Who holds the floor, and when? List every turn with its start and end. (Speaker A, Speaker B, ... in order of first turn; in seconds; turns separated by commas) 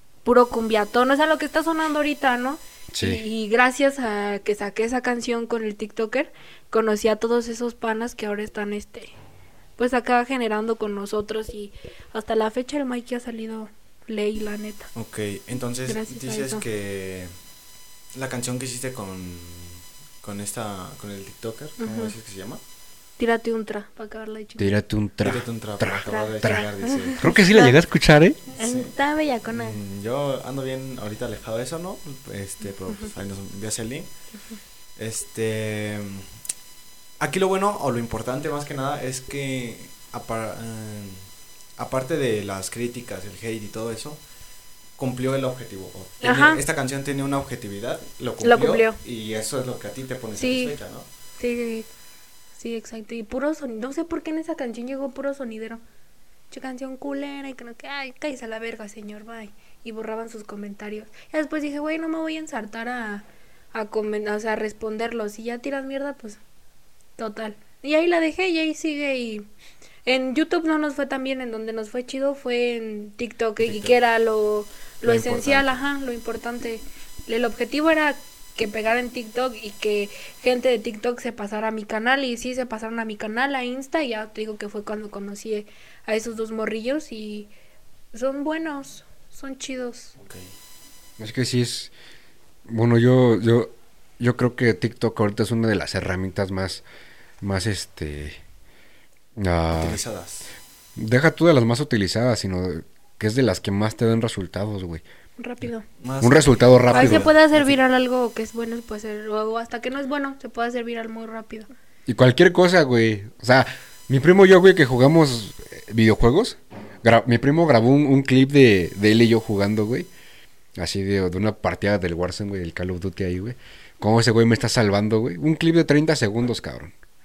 Speaker A: 0.2-9.1, Speaker B: 2.9-3.2, Speaker A: 9.8-14.9, Speaker C: 14.9-17.4, Speaker A: 15.9-16.6, Speaker C: 18.1-22.6, Speaker A: 21.8-22.1, Speaker A: 23.2-24.7, Speaker B: 24.6-28.4, Speaker C: 25.2-27.3, Speaker A: 26.1-27.8, Speaker A: 28.5-29.8, Speaker C: 28.6-28.9, Speaker C: 29.5-34.2, Speaker C: 35.0-36.4, Speaker C: 37.2-44.2, Speaker C: 45.0-51.1, Speaker A: 46.2-46.6, Speaker A: 48.4-49.0, Speaker A: 50.4-50.8, Speaker A: 51.4-51.9, Speaker A: 52.6-55.8, Speaker A: 56.5-66.4, Speaker A: 67.2-69.5, Speaker A: 70.1-87.5, Speaker C: 73.6-74.0, Speaker C: 75.0-75.8, Speaker A: 88.1-90.2, Speaker C: 90.2-90.5, Speaker B: 91.2-91.9, Speaker B: 92.7-96.8, Speaker B: 97.4-98.4, Speaker B: 99.4-100.0, Speaker C: 99.7-100.5, Speaker B: 101.0-105.0, Speaker A: 105.4-105.9, Speaker C: 106.0-107.8, Speaker B: 106.2-107.7, Speaker A: 106.9-111.7, Speaker B: 112.1-120.1, Speaker B: 120.8-126.9